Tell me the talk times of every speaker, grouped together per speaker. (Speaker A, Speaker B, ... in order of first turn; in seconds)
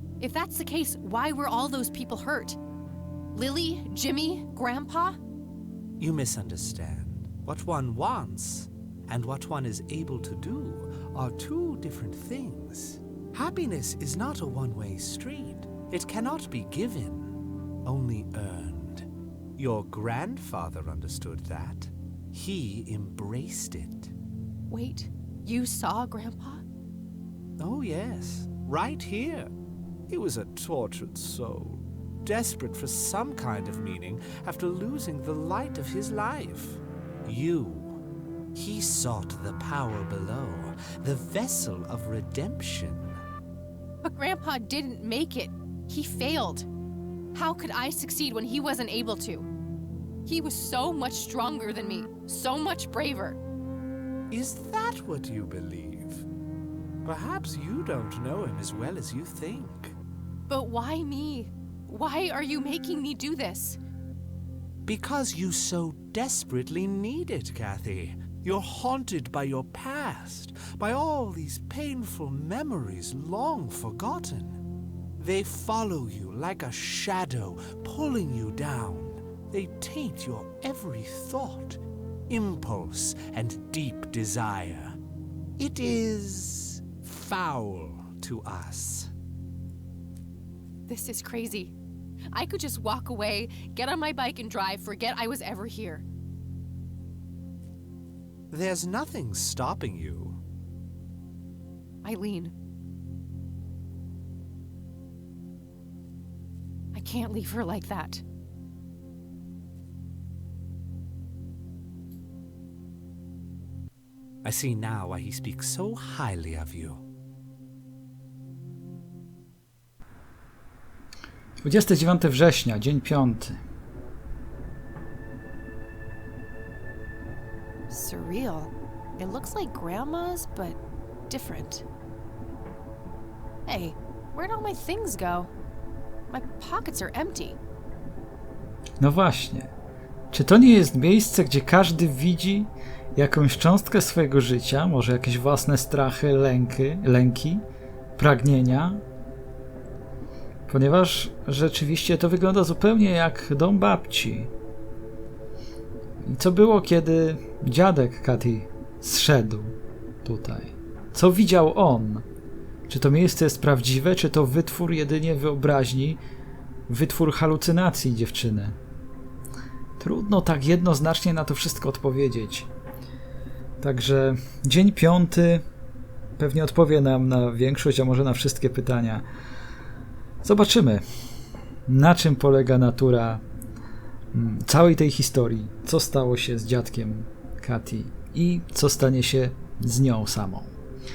Speaker A: 0.2-2.6, 3.3-5.2, 24.7-26.6, 44.0-46.7, 47.3-49.5, 50.3-53.4, 60.5-63.8, 90.9-91.7, 92.3-96.0, 102.0-102.5, 106.9-108.2, 127.9-131.8, 133.7-135.5, 136.3-137.6
Speaker B: 6.0-24.1, 27.6-29.5, 30.1-38.0, 38.5-43.2, 54.3-56.3, 57.0-60.0, 64.8-74.7, 75.2-85.0, 85.6-89.1, 98.5-100.4, 114.4-117.0
Speaker C: 121.6-123.6, 139.0-139.7, 140.3-147.7, 148.2-149.0, 150.7-154.5, 156.2-162.3, 162.9-166.2, 166.9-168.8, 170.0-172.7, 173.8-175.7, 176.4-179.3, 180.4-181.0, 181.9-183.4, 184.3-190.7